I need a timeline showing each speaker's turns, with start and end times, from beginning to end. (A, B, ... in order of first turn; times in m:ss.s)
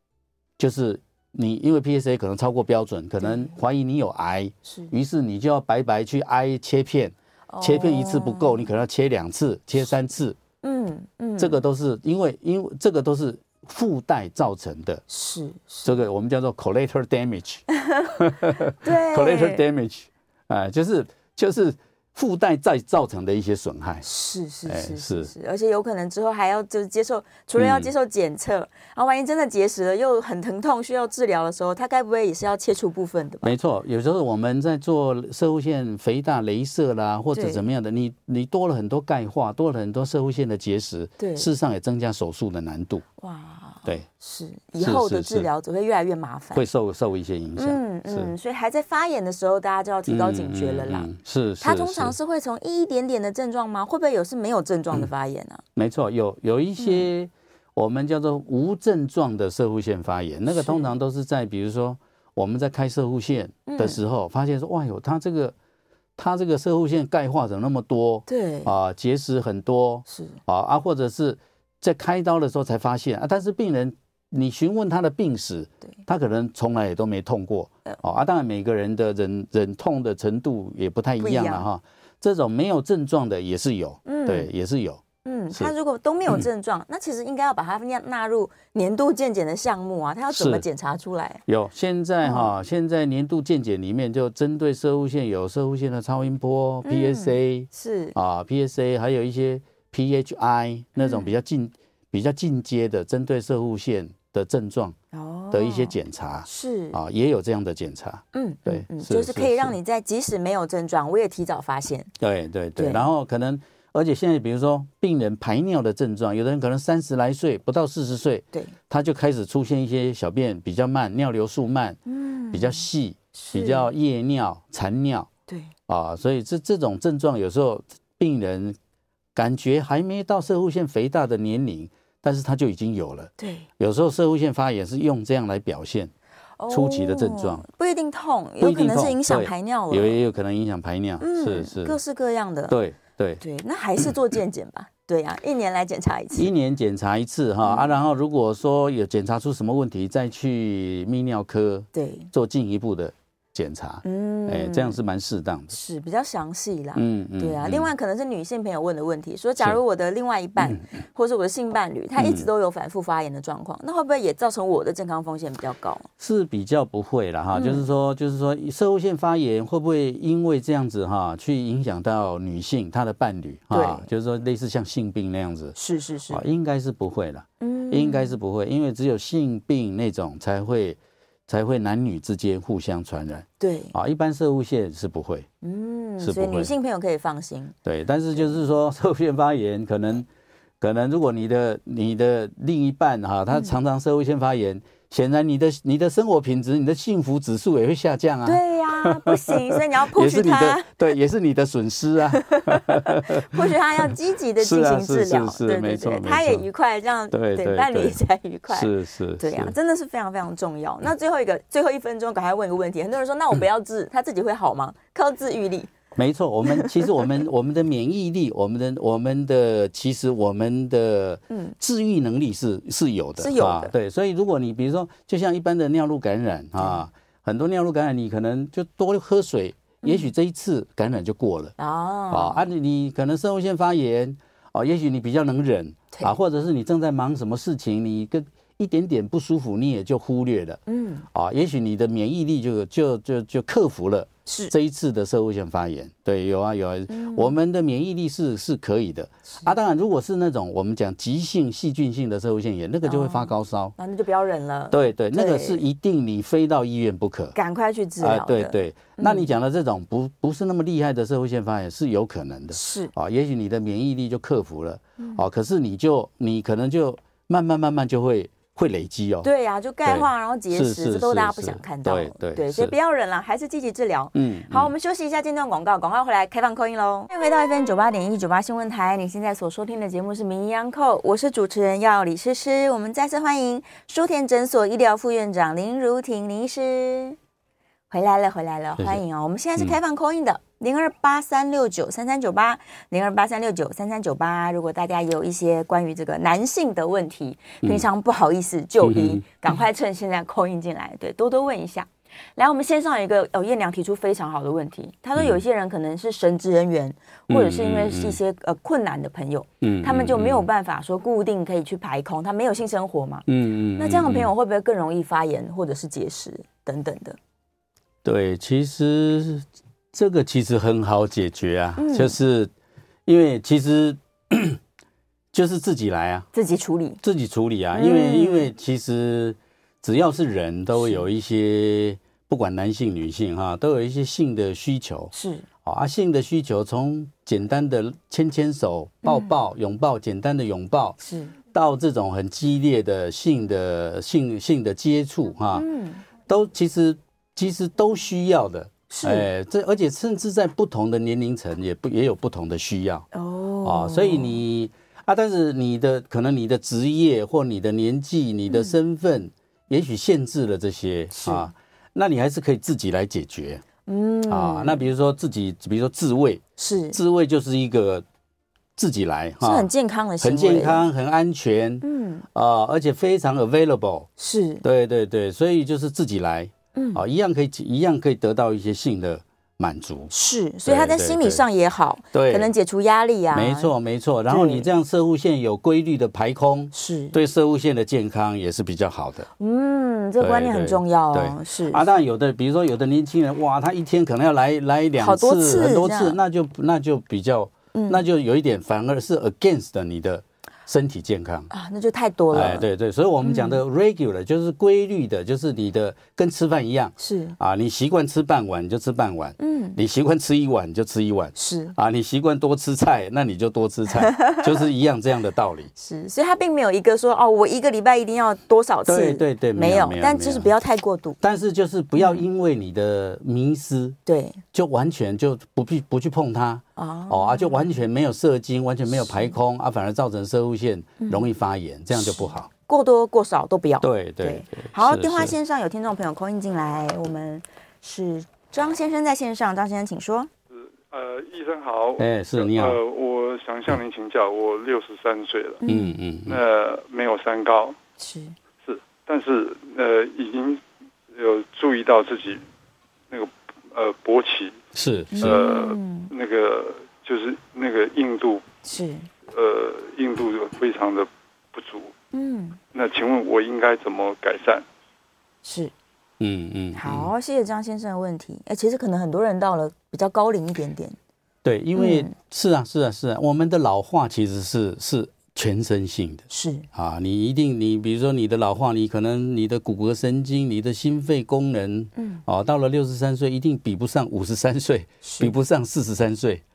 0:00.6-0:10.4 A
0:03.2-0:03.5 B
0:04.6-0:04.9 B
0:07.5-0:08.6 B
0:10.6-0:11.6 B
0:11.4-0:15.0 A
0:15.1-0:15.9 B
0:15.8-0:24.0 A
0:17.7-0:18.2 B
0:18.7-0:19.6 B
0:24.0-0:33.5 B
0:24.7-0:25.3 A
0:27.6-0:27.9 A
0:33.4-0:43.0 A
0:37.3-0:37.6 B
0:41.2-0:41.5 B
0:43.2-0:46.6 B
0:44.8-0:45.5 A
0:46.5-0:48.3 A
0:47.6-0:51.1 B
0:50.1-0:52.2 A
0:51.6-0:55.6 B
0:55.8-1:05.5 A
0:56.8-0:57.1 B
1:00.5-1:00.9 B
1:03.7-1:04.0 B
1:06.2-1:25.7 A
1:08.3-1:08.7 B
1:10.1-1:10.4 B
1:21.2-1:21.6 B
1:24.0-1:24.5 B
1:25.2-1:31.4 B
1:30.3-1:30.6 A
1:31.5-1:45.0 A
1:32.2-1:32.5 B
1:36.8-1:38.1 B
1:41.0-1:41.3 B
1:45.1-1:47.0 B
1:45.5-1:49.7 A
1:48.3-1:52.1 B
1:52.2-2:02.0 A
1:52.8-1:53.0 B
2:02.1-2:03.9 B
2:02.5-2:05.3 A
2:05.9-2:08.8 A
2:09.3-2:16.1 A
2:13.4-2:13.7 B
2:16.6-2:20.2 B
2:16.7-2:17.6 A
2:18.6-2:22.0 A
2:21.2-2:22.8 B
2:22.7-2:23.4 A
2:23.4-2:26.5 B
2:26.3-2:35.7 A
2:27.6-2:27.9 B
2:31.9-2:32.3 B
2:34.0-2:35.0 B
2:35.7-2:46.1 B
2:36.9-2:37.9 A
2:42.2-2:42.5 A
2:46.2-2:55.7 A
2:47.5-2:47.8 B
2:53.7-2:54.1 B
2:55.8-2:56.4 B
2:56.3-3:05.5 A
2:57.6-2:58.3 B
3:03.6-3:03.9 B
3:05.6-3:07.7 B
3:06.2-3:06.7 A
3:07.8-3:10.3 A
3:10.8-3:26.7 A
3:18.4-3:21.0 B
3:22.3-3:35.9 B
3:27.3-3:28.2 A
3:28.7-3:29.7 A
3:36.1-3:51.7 A
3:36.7-3:37.1 B
3:43.4-3:43.9 B
3:50.0-3:50.3 B
3:51.8-3:52.6 B
3:52.3-4:00.8 A
4:00.9-4:01.2 B
4:01.3-4:13.9 A
4:04.4-4:04.7 B
4:07.1-4:07.5 B
4:13.0-4:15.8 B
4:14.9-4:17.6 A
4:17.6-4:19.5 B
4:18.2-4:29.5 A
4:22.7-4:23.1 B
4:25.2-4:25.4 B
4:29.4-4:47.4 B
4:30.0-4:32.9 A
4:34.3-4:34.9 A
4:48.1-5:17.4 B
4:59.0-4:59.6 A
5:07.5-5:08.4 A
5:09.8-5:10.7 A
5:13.5-5:14.5 A
5:18.2-5:22.7 A
5:22.0-5:22.3 B
5:23.2-5:24.8 A
5:25.5-5:26.5 A
5:26.5-5:27.2 B
5:27.2-5:35.3 A
5:27.9-5:28.7 B
5:30.9-5:31.2 B
5:35.3-5:35.6 B
5:35.8-5:41.2 A
5:39.2-5:39.5 B
5:41.2-5:41.5 B
5:41.7-5:45.9 A
5:45.7-5:46.2 B
5:46.5-5:53.2 A
5:49.1-5:49.5 B
5:53.3-5:54.6 B
5:53.8-6:03.8 A
6:01.3-6:01.7 B
6:04.0-6:05.1 B
6:04.5-6:08.2 A
6:06.8-6:07.2 B
6:09.0-6:09.9 A
6:09.6-6:11.1 B
6:10.4-6:14.3 A
6:12.0-6:12.4 B
6:14.4-6:14.8 B
6:14.8-6:20.3 A
6:16.9-6:17.2 B
6:20.3-6:23.9 B
6:20.8-6:21.6 A
6:22.3-6:22.7 A
6:23.5-6:29.5 A
6:24.5-6:24.9 B
6:26.9-6:27.3 B
6:29.6-6:32.0 B
6:30.4-6:41.7 A
6:35.2-6:36.4 B
6:37.9-6:38.2 B
6:41.7-6:42.8 B
6:42.5-6:55.9 A
6:43.4-6:43.8 B
6:47.2-6:47.6 B
6:49.6-6:50.0 B
6:51.6-6:51.9 B
6:54.2-6:54.6 B
6:56.0-7:01.4 B
6:59.0-7:00.7 A
7:01.4-7:04.2 A
7:02.2-7:02.4 B
7:04.2-7:04.6 B
7:04.7-7:12.7 A
7:07.0-7:07.9 B
7:09.2-7:09.5 B
7:11.2-7:11.5 B
7:12.1-7:20.5 B
7:14.0-7:15.6 A
7:21.0-7:25.8 C
7:22.2-7:23.0 A
7:25.8-7:26.2 B
7:25.8-7:26.6 A
7:26.5-7:27.9 C
7:28.2-7:28.5 B
7:28.8-7:30.8 C
7:31.3-7:32.6 C
7:33.3-7:34.8 C
7:34.9-7:35.6 A
7:35.3-7:36.3 B
7:35.4-7:38.6 C
7:38.8-7:39.3 B
7:39.5-7:42.1 C
7:42.3-7:42.8 B
7:42.9-7:44.8 C
7:45.6-7:45.9 B
7:46.4-7:47.3 A
7:46.9-7:51.2 B
7:51.6-8:06.6 A
7:52.0-7:52.3 B
7:56.5-7:56.9 B
8:02.2-8:02.4 B
8:05.2-8:05.5 B